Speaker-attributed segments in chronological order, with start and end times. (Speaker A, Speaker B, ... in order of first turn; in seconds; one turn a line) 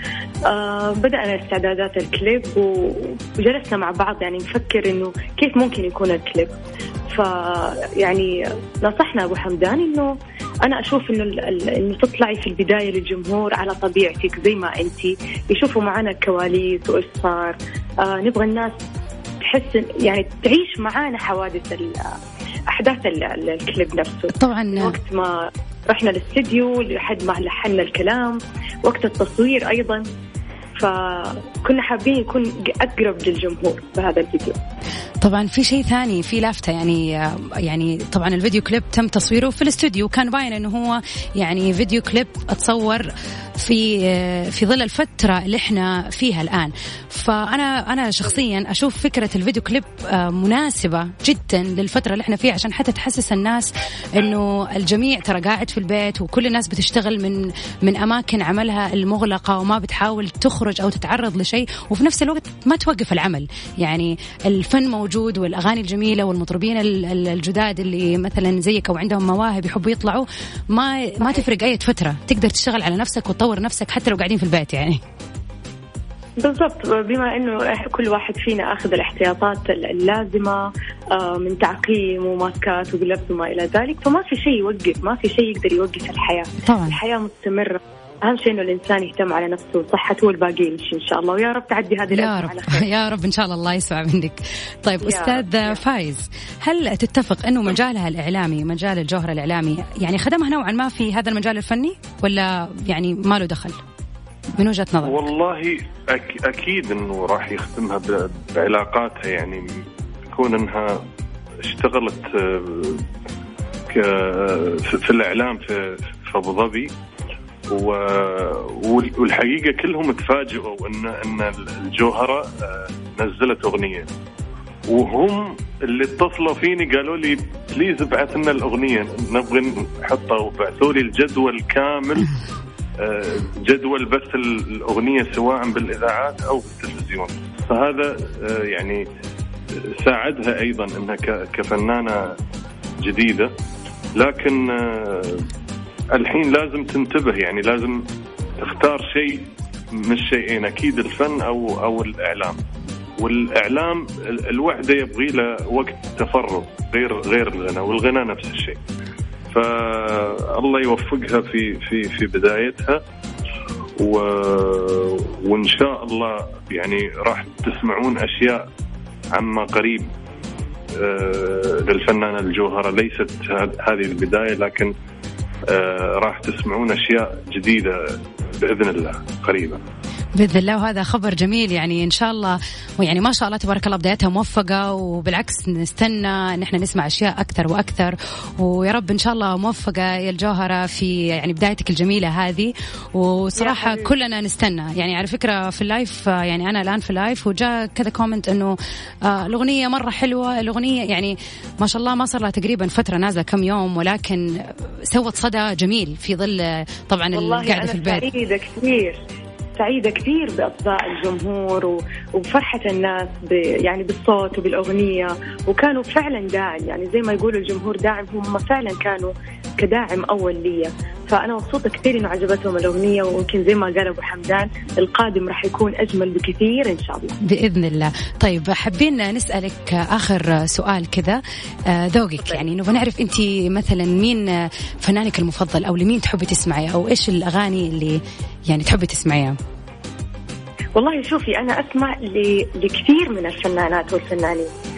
Speaker A: 0.5-6.6
Speaker A: 7.1-18.8
Speaker A: 19.4-22.1
Speaker A: 22.7-30.0
Speaker B: 24.3-25.0
Speaker A: 30.8-34.6
Speaker B: 35.2-75.0
Speaker A: 76.4-80.6
Speaker A: 81.2-92.9
Speaker B: 86.6-87.0
Speaker B: 92.1-103.8
Speaker A: 95.0-95.8
Speaker B: 104.6-105.3
Speaker C: 105.0-109.7
Speaker C: 110.3-111.0
Speaker C: 111.6-113.0
Speaker C: 113.9-116.9
Speaker C: 117.7-124.1
Speaker C: 124.9-132.3
Speaker C: 133.0-139.0
Speaker C: 140.0-142.3
Speaker C: 143.0-143.5
Speaker C: 144.2-145.4
Speaker C: 146.1-148.0
Speaker C: 148.6-152.6
Speaker C: 153.2-158.8
Speaker C: 159.5-163.0
Speaker C: 164.0-168.7
Speaker C: 169.3-170.1
Speaker C: 171.0-174.9
Speaker C: 175.7-178.0
Speaker C: 178.6-179.8
Speaker B: 180.4-208.3
Speaker A: 193.6-194.1
Speaker A: 207.3-209.2
Speaker A: 209.8-227.3
Speaker B: 227.4-239.6
Speaker A: 232.4-232.7
Speaker A: 241.0-244.7